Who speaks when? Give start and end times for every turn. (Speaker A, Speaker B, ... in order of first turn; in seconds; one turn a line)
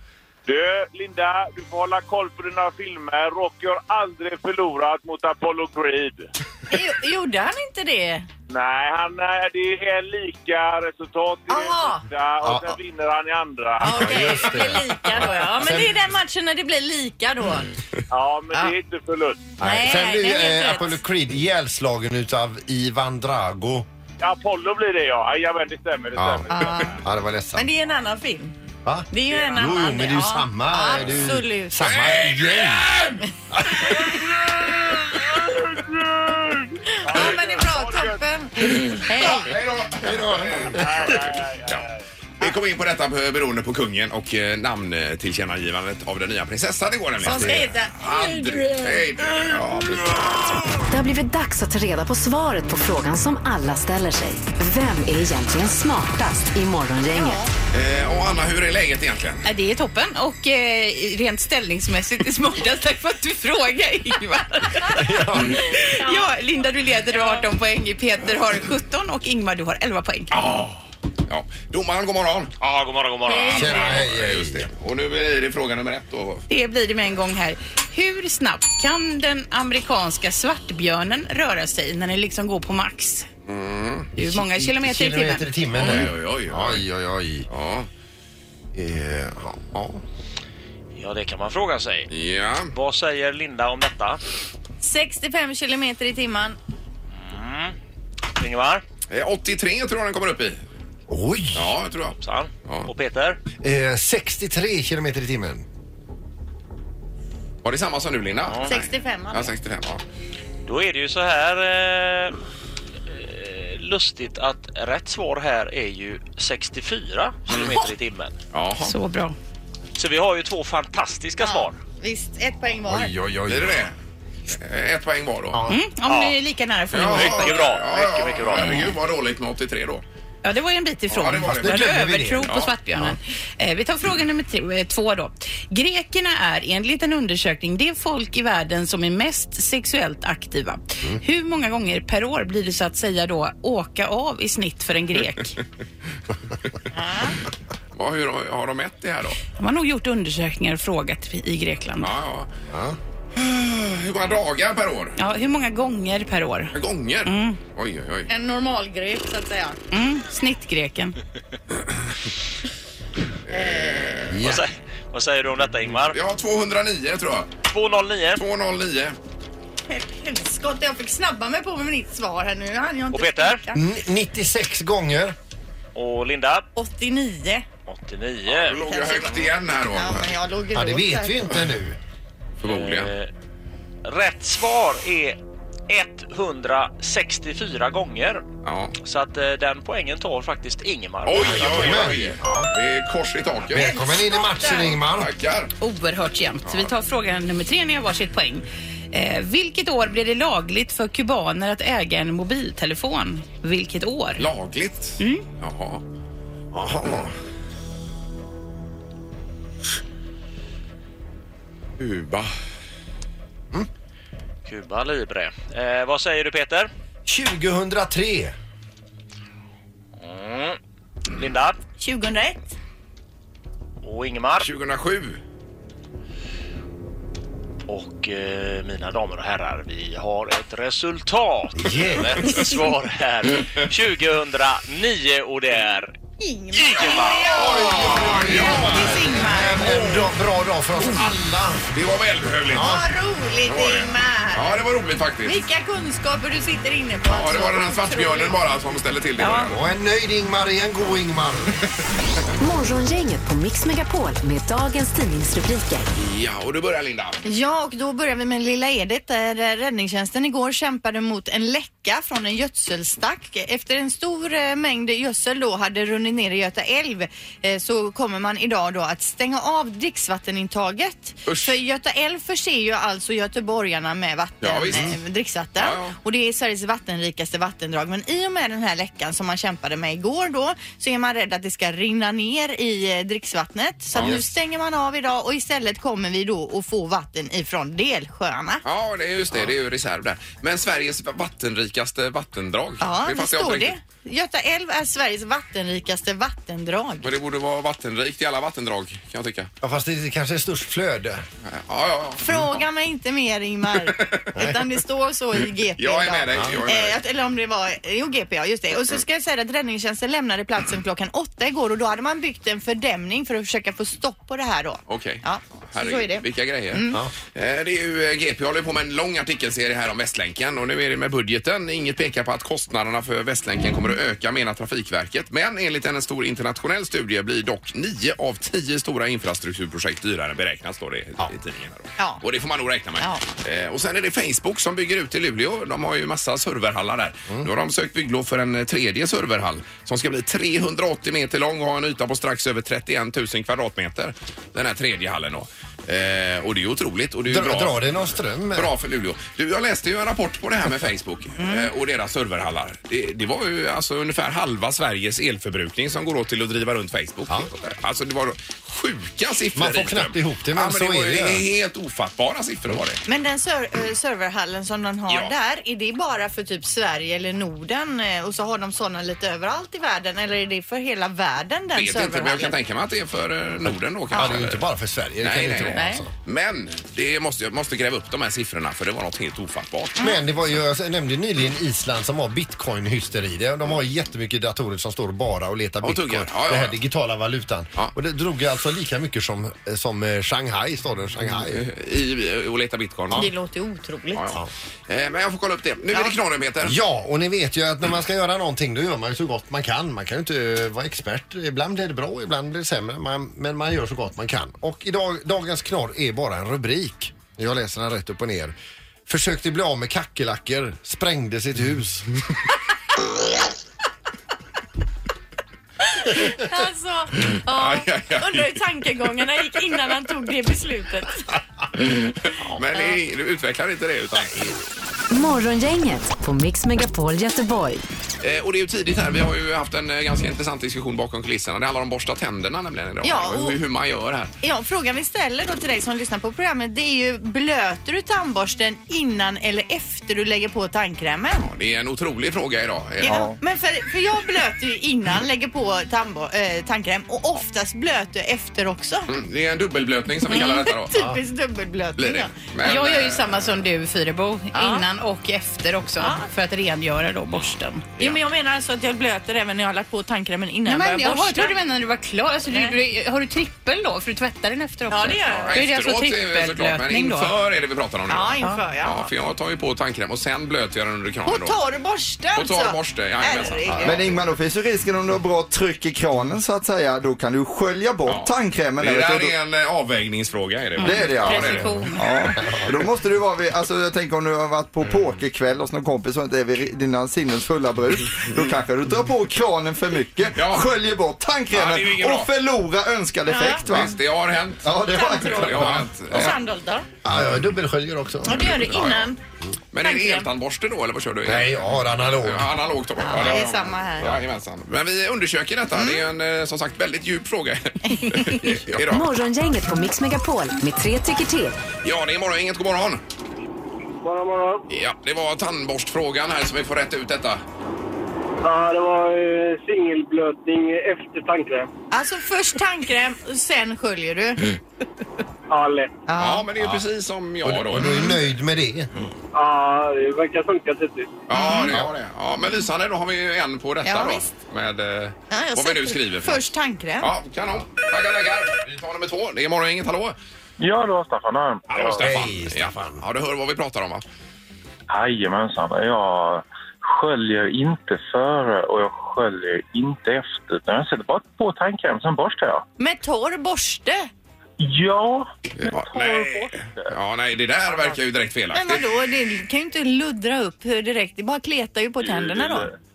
Speaker A: 0.5-6.3
Speaker B: 6.7-8.3
Speaker A: 8.5-14.5
Speaker B: 11.5-12.0
Speaker C: 12.4-12.8
Speaker B: 13.8-17.7
Speaker C: 13.8-16.0
Speaker A: 18.1-19.5
Speaker C: 19.6-23.9
Speaker B: 19.6-21.0
Speaker A: 24.2-27.0
Speaker C: 26.1-27.7
Speaker B: 26.5-27.0
Speaker B: 27.6-28.6
Speaker C: 28.9-32.9
Speaker B: 29.1-31.8
Speaker A: 29.3-29.7
Speaker D: 31.8-33.3
Speaker C: 33.5-34.0
Speaker A: 35.5-38.2
Speaker B: 36.9-39.5
Speaker D: 38.6-41.9
Speaker C: 40.0-41.2
Speaker A: 40.7-41.8
Speaker D: 42.4-50.5
Speaker B: 47.2-48.8
Speaker C: 47.3-47.7
Speaker E: 50.9-57.4
Speaker B: 57.1-57.5
Speaker D: 57.7-59.5
Speaker F: 59.5-70.3
Speaker C: 65.0-65.7
Speaker B: 65.8-66.3
Speaker B: 67.1-67.4
Speaker D: 70.3-72.5
Speaker G: 72.6-74.0
Speaker F: 73.3-73.7
Speaker D: 73.5-76.4
Speaker C: 73.5-74.7
Speaker F: 76.5-83.3
Speaker D: 83.5-84.1
Speaker F: 84.2-85.5
Speaker C: 84.2-87.5
Speaker D: 85.7-86.8
Speaker D: 87.5-87.9
Speaker C: 88.8-90.0
Speaker G: 90.9-92.1
Speaker D: 92.1-92.7
Speaker G: 92.7-94.2
Speaker B: 94.8-96.6
Speaker G: 97.1-97.8
Speaker G: 98.4-98.8
Speaker D: 99.1-100.6
Speaker C: 101.1-101.7
Speaker D: 101.5-102.9
Speaker G: 102.2-103.4
Speaker C: 103.6-105.7
Speaker D: 107.6-110.0
Speaker G: 108.4-108.8
Speaker B: 108.7-109.5
Speaker G: 110.7-112.4
Speaker G: 113.1-118.4
Speaker D: 118.5-118.9
Speaker F: 118.8-119.4
Speaker G: 120.0-121.8
Speaker B: 121.4-123.1
Speaker C: 122.9-123.9
Speaker D: 123.5-123.9
Speaker D: 124.5-125.6
Speaker C: 125.5-125.8
Speaker F: 125.7-127.7
Speaker G: 126.1-126.4
Speaker D: 126.9-130.0
Speaker G: 127.0-128.9
Speaker F: 128.6-128.9
Speaker F: 130.4-145.6
Speaker D: 131.1-132.7
Speaker C: 131.4-133.2
Speaker B: 146.9-147.4
Speaker D: 147.9-149.4
Speaker F: 149.6-152.1
Speaker D: 152.0-152.5
Speaker C: 152.7-153.0
Speaker D: 153.3-155.2
Speaker F: 155.2-156.7
Speaker D: 156.7-158.3
Speaker F: 157.2-157.6
Speaker B: 158.3-159.8
Speaker F: 159.9-161.2
Speaker D: 163.5-164.6
Speaker B: 163.5-164.2
Speaker C: 164.3-164.7
Speaker G: 164.4-166.2
Speaker D: 166.0-167.5
Speaker G: 167.7-168.4
Speaker D: 168.4-169.2
Speaker B: 169.9-173.8
Speaker G: 173.1-173.6
Speaker C: 173.7-175.3
Speaker G: 175.9-176.7
Speaker B: 176.8-177.7
Speaker G: 177.9-178.9
Speaker D: 178.5-180.3
Speaker B: 178.8-181.5
Speaker C: 180.7-182.0
Speaker D: 182.6-183.1
Speaker G: 182.6-183.3
Speaker G: 184.1-185.4
Speaker G: 185.9-188.5
Speaker D: 188.6-189.0
Speaker G: 189.0-192.1
Speaker D: 191.2-194.2
Speaker C: 191.4-192.7
Speaker C: 193.7-195.3
Speaker D: 194.7-195.7
Speaker F: 195.8-204.4
Speaker D: 196.7-196.9
Speaker D: 204.4-206.0
Speaker F: 205.2-205.5
Speaker C: 206.7-207.3
Speaker D: 212.0-212.5
Speaker G: 214.7-216.9
Speaker C: 217.3-218.5
Speaker G: 220.2-220.8
Speaker G: 221.3-221.8
Speaker B: 222.0-222.7
Speaker G: 224.0-224.7
Speaker D: 224.6-225.4
Speaker G: 227.9-236.1
Speaker C: 231.8-232.5
Speaker B: 236.4-240.2
Speaker G: 236.7-237.6
Speaker D: 237.3-240.2
Speaker C: 238.0-241.9
Speaker D: 241.9-243.0
Speaker C: 242.7-243.0
Speaker B: 242.7-244.8
Speaker D: 243.7-245.6
Speaker B: 245.4-248.6
Speaker D: 247.3-249.8
Speaker F: 249.4-249.7
Speaker C: 249.7-251.8
Speaker E: 252.6-256.1
Speaker D: 256.2-257.4
Speaker B: 257.4-288.8
Speaker D: 271.5-271.8
Speaker D: 274.6-275.1
Speaker D: 275.8-276.2
Speaker D: 284.1-284.4
Speaker D: 288.8-294.0
Speaker B: 293.0-297.3
Speaker D: 297.2-299.7
Speaker C: 299.8-301.4
Speaker D: 301.6-302.8
Speaker B: 302.4-317.2
Speaker D: 304.0-304.6
Speaker D: 306.0-307.2
Speaker C: 306.5-306.8
Speaker D: 315.1-363.2
Speaker C: 347.5-348.9
Speaker B: 351.6-351.9
Speaker C: 359.8-361.7
Speaker B: 363.3-372.7
Speaker D: 365.3-365.5
Speaker D: 371.9-374.9
Speaker B: 374.3-374.6
Speaker C: 374.3-376.3
Speaker D: 375.4-380.2
Speaker B: 375.9-376.2
Speaker C: 380.2-391.8
Speaker D: 386.0-387.0
Speaker D: 391.5-393.5
Speaker B: 393.3-394.5
Speaker D: 394.4-397.0
Speaker C: 396.8-408.8
Speaker C: 409.3-412.3
Speaker B: 416.3-421.4
Speaker D: 417.5-418.8
Speaker D: 422.0-424.8
Speaker E: 425.3-428.0
Speaker D: 428.4-434.5
Speaker B: 433.2-433.8
Speaker B: 434.6-441.7
Speaker D: 441.6-443.5
Speaker B: 443.2-449.3
Speaker D: 449.3-451.2
Speaker B: 450.5-452.5
Speaker D: 452.2-453.7
Speaker F: 452.8-458.1
Speaker B: 454.7-455.1
Speaker B: 456.2-456.5
Speaker D: 457.5-458.4
Speaker B: 458.2-461.8
Speaker F: 460.9-467.5
Speaker B: 465.1-465.9
Speaker D: 465.6-471.8
Speaker B: 468.3-469.3
Speaker B: 471.5-474.2
Speaker D: 472.5-474.2
Speaker C: 473.9-474.2
Speaker H: 474.0-479.5
Speaker D: 478.3-482.0
Speaker F: 481.0-482.3
Speaker H: 481.0-494.2
Speaker B: 481.4-481.9
Speaker D: 490.6-490.9
Speaker D: 491.7-492.5
Speaker B: 493.5-493.9
Speaker D: 493.8-496.6
Speaker H: 494.8-496.5
Speaker B: 495.1-497.1
Speaker C: 495.9-496.1
Speaker C: 497.2-499.1
Speaker B: 498.4-499.4
Speaker D: 498.6-499.3
Speaker D: 499.9-509.3
Speaker B: 500.0-500.5
Speaker C: 501.5-502.7
Speaker B: 503.2-504.4
Speaker B: 505.9-506.3
Speaker B: 508.1-508.5
Speaker E: 509.1-511.8
Speaker D: 512.0-513.2
Speaker I: 514.2-514.8
Speaker D: 514.9-517.6
Speaker I: 518.6-521.9
Speaker B: 522.1-524.6
Speaker I: 525.7-526.1
Speaker B: 526.3-526.7
Speaker D: 526.4-528.2
Speaker C: 526.8-527.0
Speaker C: 527.6-529.1
Speaker I: 529.5-531.4
Speaker D: 531.5-536.7
Speaker B: 531.5-531.9
Speaker B: 534.0-534.5
Speaker B: 535.5-537.3
Speaker D: 537.2-540.4
Speaker J: 540.8-542.3
Speaker D: 541.9-544.2
Speaker C: 542.2-543.2
Speaker J: 545.1-552.9
Speaker B: 553.0-554.3
Speaker J: 554.8-557.1
Speaker D: 555.8-559.0
Speaker J: 557.9-558.2
Speaker B: 558.7-562.9
Speaker J: 562.2-562.9